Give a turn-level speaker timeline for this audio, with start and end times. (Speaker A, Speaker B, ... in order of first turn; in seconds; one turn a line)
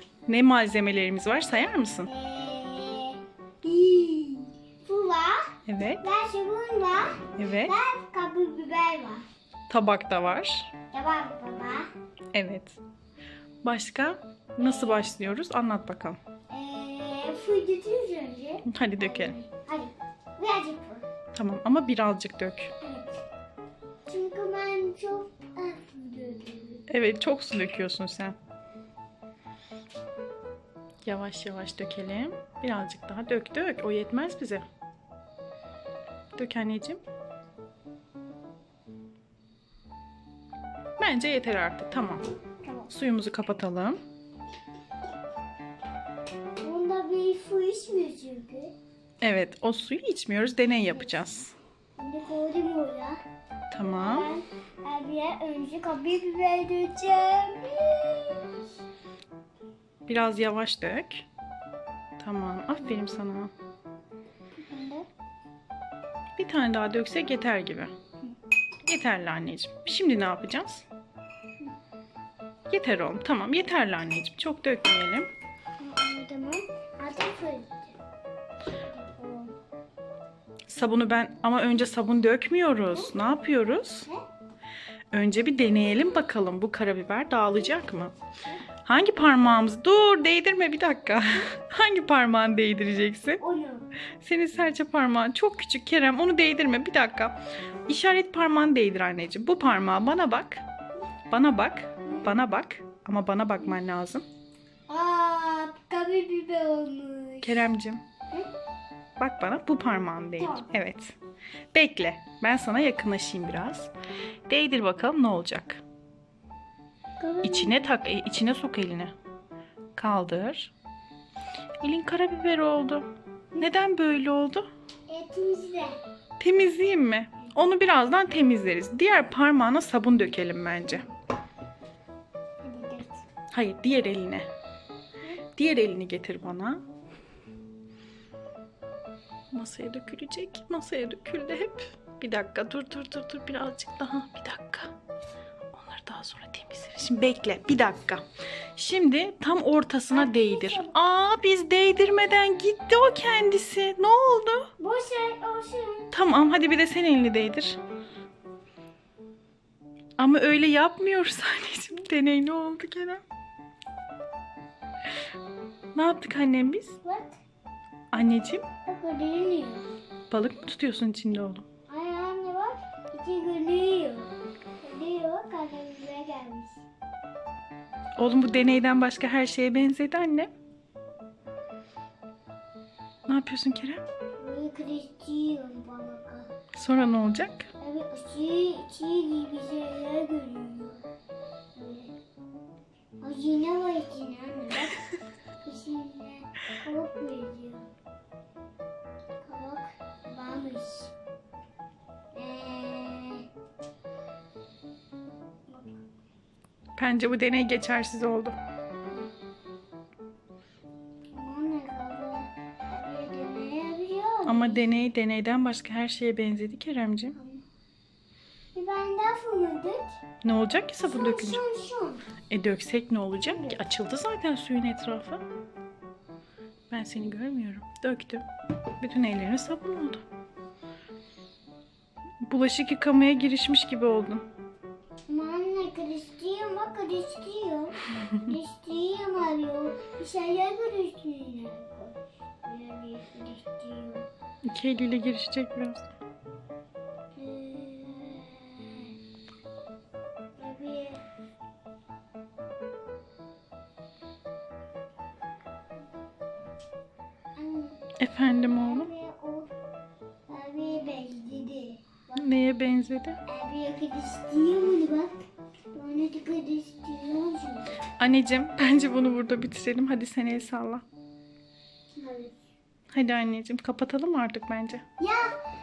Speaker A: 0.2-2.1
Speaker B: 2.0-9.2
Speaker A: 5.7-6.1
Speaker A: 7.3-7.7
Speaker A: 9.7-10.7
Speaker B: 10.9-11.9
Speaker A: 12.3-12.8
Speaker A: 13.6-16.2
Speaker B: 14.6-15.0
Speaker B: 16.5-21.1
Speaker A: 18.6-19.4
Speaker A: 21.3-22.7
Speaker B: 22.8-23.2
Speaker B: 24.1-26.8
Speaker A: 26.9-28.4
Speaker A: 31.0-34.6
Speaker A: 36.4-37.0
Speaker A: 41.0-42.2
Speaker A: 42.9-44.0
Speaker B: 46.6-48.7
Speaker A: 49.2-51.5
Speaker B: 52.0-53.2
Speaker A: 53.7-54.3
Speaker B: 54.0-58.6
Speaker A: 60.1-61.2
Speaker A: 62.2-63.5
Speaker B: 64.7-65.1
Speaker A: 66.4-67.9
Speaker A: 68.8-70.8
Speaker A: 72.7-75.3
Speaker B: 75.8-77.9
Speaker B: 78.9-79.5
Speaker A: 80.7-84.1
Speaker A: 85.1-88.1
Speaker A: 88.8-93.4
Speaker B: 93.4-93.9
Speaker A: 94.2-97.3
Speaker A: 97.9-100.6
Speaker A: 101.3-104.2
Speaker B: 102.1-102.3
Speaker B: 104.9-107.7
Speaker A: 107.4-108.0
Speaker A: 109.2-111.2
Speaker B: 110.4-110.7
Speaker A: 111.7-113.9
Speaker A: 114.5-115.8
Speaker B: 117.2-117.8
Speaker A: 117.4-119.1
Speaker A: 120.0-120.7
Speaker A: 121.8-124.7
Speaker B: 125.1-125.9
Speaker A: 126.4-131.0
Speaker B: 132.6-133.2
Speaker A: 133.5-134.5
Speaker A: 135.5-136.8
Speaker A: 139.5-144.9
Speaker A: 145.7-148.2
Speaker A: 148.8-154.7
Speaker B: 150.1-150.9
Speaker B: 154.8-156.1
Speaker A: 156.1-157.8
Speaker A: 160.2-163.2
Speaker A: 165.9-167.0
Speaker B: 167.0-167.4
Speaker A: 168.1-168.7
Speaker B: 168.8-169.9
Speaker A: 170.3-171.6
Speaker B: 171.9-176.8
Speaker A: 178.2-180.5
Speaker A: 183.3-184.0
Speaker B: 184.4-186.5
Speaker A: 186.7-187.7
Speaker B: 187.8-191.1
Speaker B: 191.7-192.1
Speaker B: 193.2-195.1
Speaker B: 195.6-197.9
Speaker B: 199.4-201.1
Speaker B: 202.3-203.4
Speaker B: 205.7-205.9
Speaker A: 207.0-208.6
Speaker B: 211.3-214.9
Speaker A: 214.4-217.4
Speaker B: 217.3-217.6
Speaker B: 218.7-220.2
Speaker A: 220.4-221.6
Speaker B: 221.0-222.2
Speaker A: 222.5-225.4
Speaker B: 223.4-223.8
Speaker A: 226.9-228.4
Speaker A: 229.0-230.2
Speaker A: 232.4-234.4
Speaker B: 235.3-244.3
Speaker A: 244.7-246.1
Speaker B: 247.3-249.1
Speaker B: 250.6-251.2
Speaker B: 257.6-258.0
Speaker A: 258.2-259.1
Speaker B: 258.7-259.7
Speaker B: 260.5-262.4
Speaker A: 262.4-263.4
Speaker B: 263.5-265.4
Speaker B: 265.9-268.0
Speaker A: 268.1-271.0
Speaker B: 272.2-272.6
Speaker A: 273.1-275.0
Speaker B: 275.2-275.5